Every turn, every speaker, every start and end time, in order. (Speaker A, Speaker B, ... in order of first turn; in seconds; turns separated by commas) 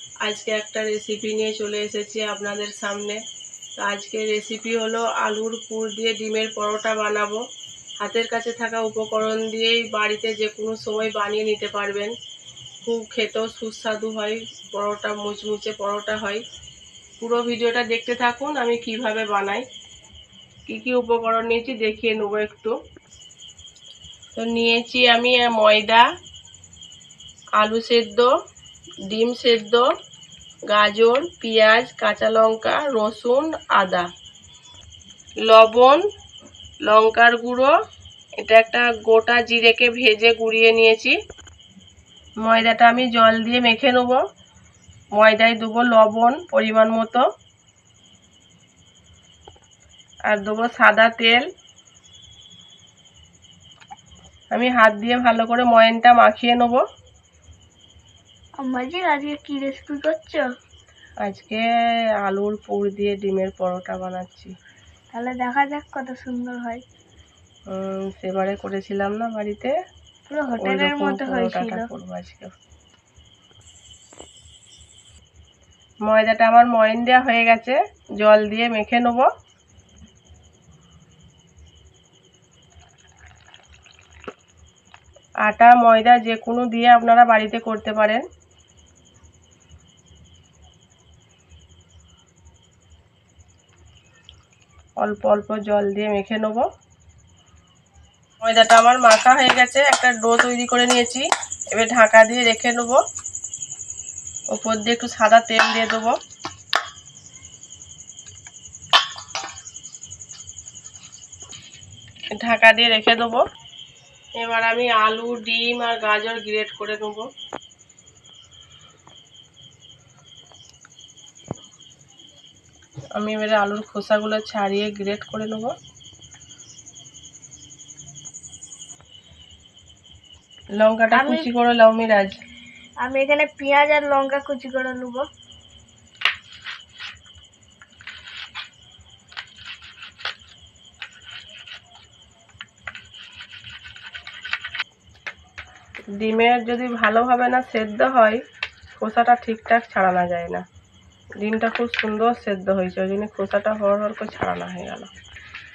Speaker A: 0.2-3.2, Speaker A: 3.8-7.4, Speaker A: 8.0-12.1, Speaker A: 12.8-16.4, Speaker A: 17.2-19.6, Speaker A: 20.7-22.7, Speaker A: 24.4-26.1, Speaker A: 27.6-28.3, Speaker A: 29.1-29.9, Speaker A: 30.7-34.1, Speaker A: 35.5-36.0, Speaker A: 36.9-37.7, Speaker A: 38.4-41.2, Speaker A: 42.4-44.2, Speaker A: 45.2-47.2, Speaker A: 50.3-51.5, Speaker A: 54.5-56.8, Speaker B: 58.6-60.5, Speaker A: 61.2-61.6, Speaker A: 62.2-64.5, Speaker B: 65.1-66.8, Speaker A: 67.7-69.7, Speaker B: 70.3-71.9, Speaker A: 70.6-72.5, Speaker A: 76.1-79.3, Speaker A: 85.5-88.2, Speaker A: 95.0-96.7, Speaker A: 98.4-103.0, Speaker A: 104.5-106.1, Speaker A: 112.4-113.4, Speaker A: 114.4-117.2, Speaker A: 123.2-125.7, Speaker A: 130.8-132.3, Speaker B: 131.1-131.5, Speaker B: 133.0-135.2, Speaker A: 146.2-148.4, Speaker A: 149.0-150.6, Speaker A: 151.4-155.1